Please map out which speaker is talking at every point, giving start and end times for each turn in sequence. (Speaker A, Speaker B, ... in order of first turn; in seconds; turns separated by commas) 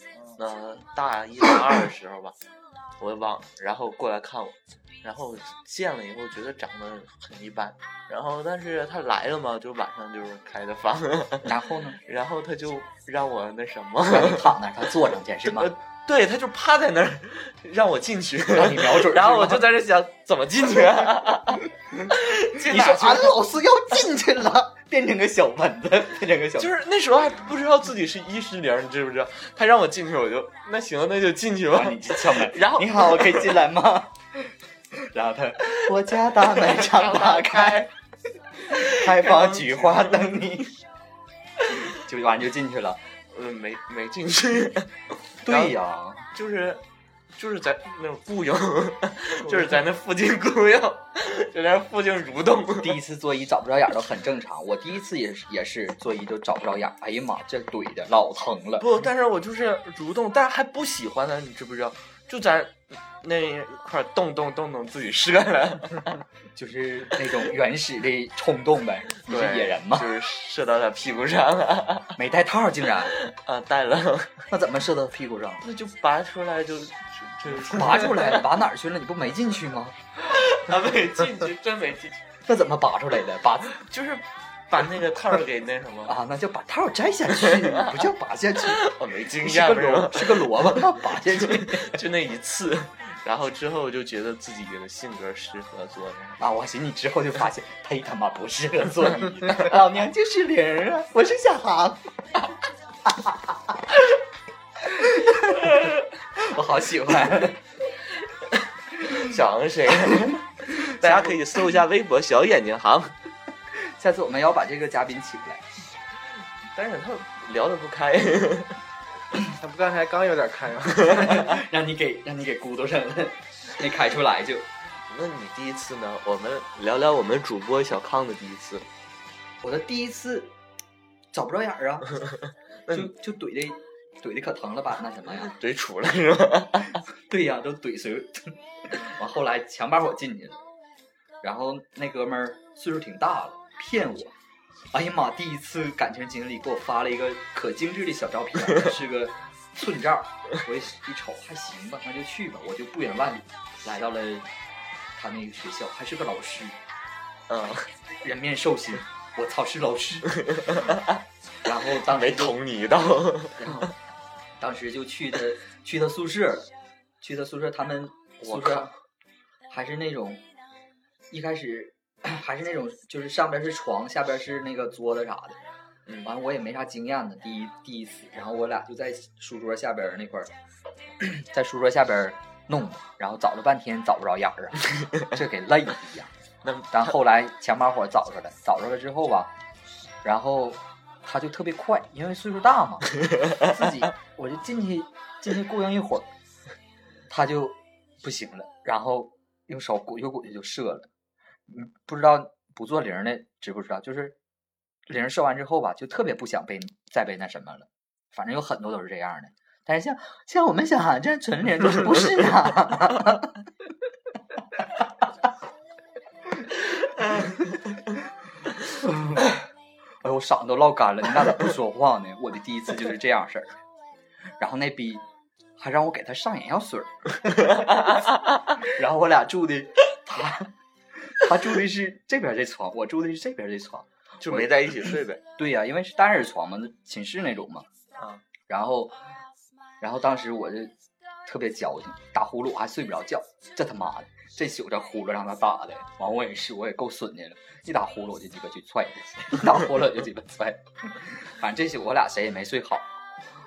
Speaker A: 0.4-2.4, Speaker A: 3.0-14.6, Speaker B: 11.4-12.0, Speaker B: 14.1-15.7, Speaker A: 15.4-23.4, Speaker B: 18.5-19.7, Speaker B: 22.6-26.7, Speaker A: 26.6-33.6, Speaker B: 31.7-37.9, Speaker A: 36.5-37.9, Speaker A: 38.7-40.3, Speaker B: 38.7-40.7, Speaker B: 41.9-43.0, Speaker A: 43.3-45.8, Speaker B: 45.4-46.3, Speaker A: 46.3-46.8, Speaker A: 47.4-53.0, Speaker B: 49.5-49.8, Speaker B: 52.8-58.9, Speaker A: 58.8-66.2, Speaker B: 66.5-70.1, Speaker A: 69.3-72.2, Speaker B: 72.2-73.2, Speaker A: 73.1-74.4, Speaker B: 74.5-75.6, Speaker A: 75.6-78.5, Speaker B: 77.5-80.0, Speaker A: 80.2-82.2, Speaker B: 82.5-83.8, Speaker A: 83.8-86.1, Speaker B: 86.1-88.8, Speaker A: 87.4-88.0, Speaker A: 88.6-96.4, Speaker B: 89.4-92.0, Speaker B: 96.4-102.0, Speaker B: 103.0-103.8, Speaker B: 104.8-107.6, Speaker A: 108.5-113.1, Speaker B: 111.0-111.4, Speaker B: 113.7-115.7, Speaker A: 116.7-118.8, Speaker C: 119.5-121.5, Speaker B: 121.0-124.7, Speaker A: 125.1-128.9, Speaker B: 129.6-130.5, Speaker B: 131.3-132.1, Speaker B: 132.9-135.5, Speaker A: 135.5-137.0, Speaker B: 137.1-140.6, Speaker B: 141.4-144.3, Speaker B: 144.9-154.5, Speaker B: 155.1-156.8, Speaker A: 157.5-157.9, Speaker B: 158.2-160.3, Speaker A: 160.4-161.2, Speaker B: 161.6-162.6, Speaker A: 161.9-163.9, Speaker B: 163.6-163.9, Speaker B: 164.6-166.7, Speaker B: 167.2-168.9, Speaker A: 168.4-168.9, Speaker B: 169.7-170.4, Speaker B: 171.3-175.6, Speaker B: 176.2-180.5, Speaker B: 181.2-186.3, Speaker A: 186.6-187.1, Speaker B: 186.9-189.5, Speaker B: 190.2-196.3, Speaker B: 197.3-201.1, Speaker B: 201.7-204.3, Speaker B: 205.1-213.6, Speaker B: 217.2-217.7, Speaker B: 218.8-219.5, Speaker B: 220.2-223.8, Speaker B: 224.6-225.2, Speaker B: 225.8-237.9, Speaker A: 234.4-235.4, Speaker B: 238.7-239.2, Speaker B: 240.0-240.9, Speaker B: 241.4-253.1